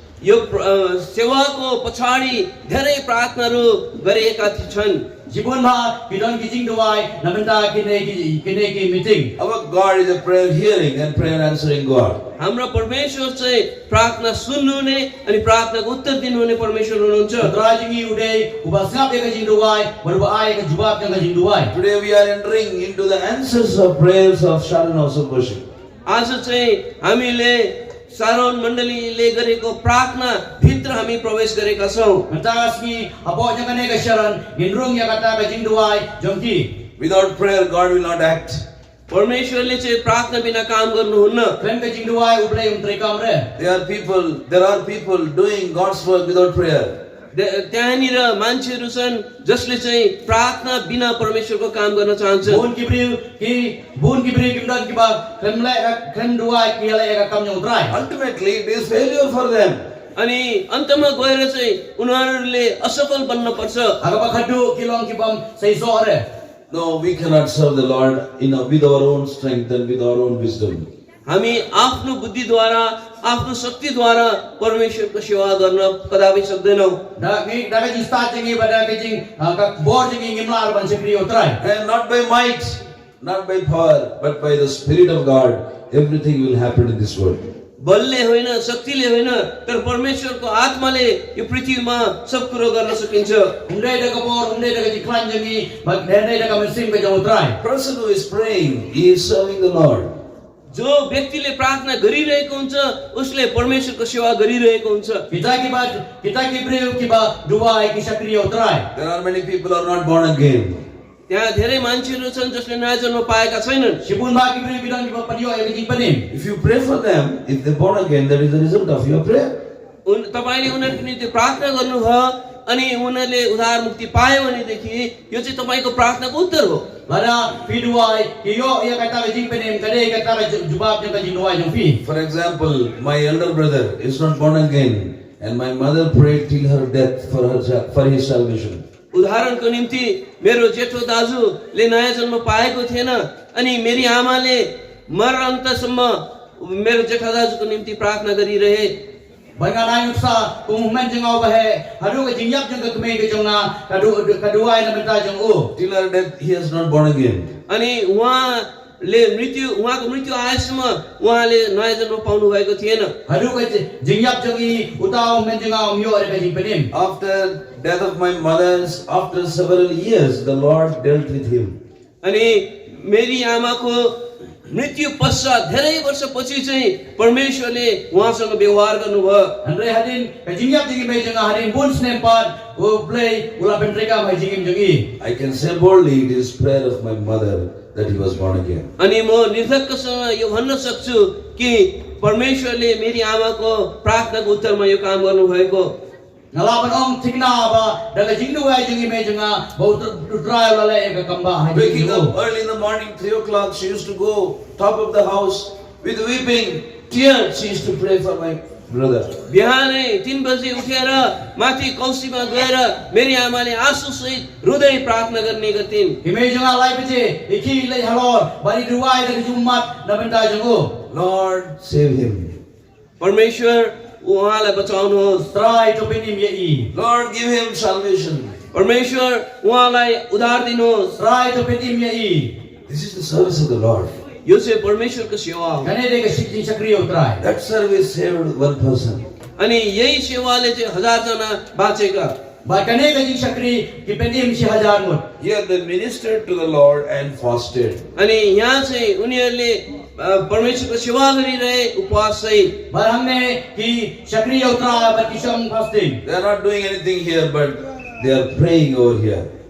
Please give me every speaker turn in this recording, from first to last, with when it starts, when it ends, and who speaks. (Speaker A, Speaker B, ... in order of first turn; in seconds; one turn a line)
Speaker A: 0.2-5.1
Speaker B: 5.3-9.3
Speaker C: 9.4-12.2
Speaker A: 12.4-17.5
Speaker B: 17.4-21.7
Speaker C: 21.7-25.6
Speaker A: 26.1-32.3
Speaker B: 32.3-36.7
Speaker C: 37.0-38.6
Speaker A: 39.1-41.6
Speaker B: 41.6-43.5
Speaker C: 43.6-47.0
Speaker A: 47.3-52.6
Speaker B: 52.5-58.0
Speaker C: 57.9-59.8
Speaker A: 60.2-64.0
Speaker B: 64.0-66.2
Speaker C: 66.7-70.9
Speaker A: 71.3-77.0
Speaker B: 77.2-81.6
Speaker C: 81.6-87.5
Speaker A: 87.8-93.5
Speaker B: 93.7-97.6
Speaker C: 97.6-100.1
Speaker A: 100.7-105.2
Speaker B: 105.3-108.9
Speaker C: 108.9-110.8
Speaker A: 111.3-114.0
Speaker B: 114.0-116.3
Speaker C: 116.3-119.5
Speaker A: 120.0-126.9
Speaker B: 127.1-132.0
Speaker C: 132.0-138.8
Speaker A: 139.1-148.9
Speaker B: 149.6-155.7
Speaker C: 155.8-157.5
Speaker A: 157.7-163.1
Speaker B: 163.3-166.9
Speaker C: 166.9-171.8
Speaker A: 172.2-179.6
Speaker B: 179.6-185.1
Speaker C: 185.2-188.9
Speaker A: 189.0-195.9
Speaker B: 196.5-202.3
Speaker C: 201.7-209.4
Speaker A: 209.5-216.2
Speaker B: 216.2-220.9
Speaker C: 221.1-222.6
Speaker A: 223.2-225.5
Speaker B: 225.5-226.9
Speaker C: 226.9-228.6
Speaker A: 228.7-231.2
Speaker B: 231.2-232.5
Speaker C: 232.9-234.1
Speaker A: 234.4-235.9
Speaker B: 235.8-237.4
Speaker C: 237.4-239.3
Speaker A: 239.6-242.3
Speaker B: 242.7-245.2
Speaker C: 245.4-248.1
Speaker A: 248.2-252.8
Speaker B: 252.9-256.2
Speaker C: 256.2-259.5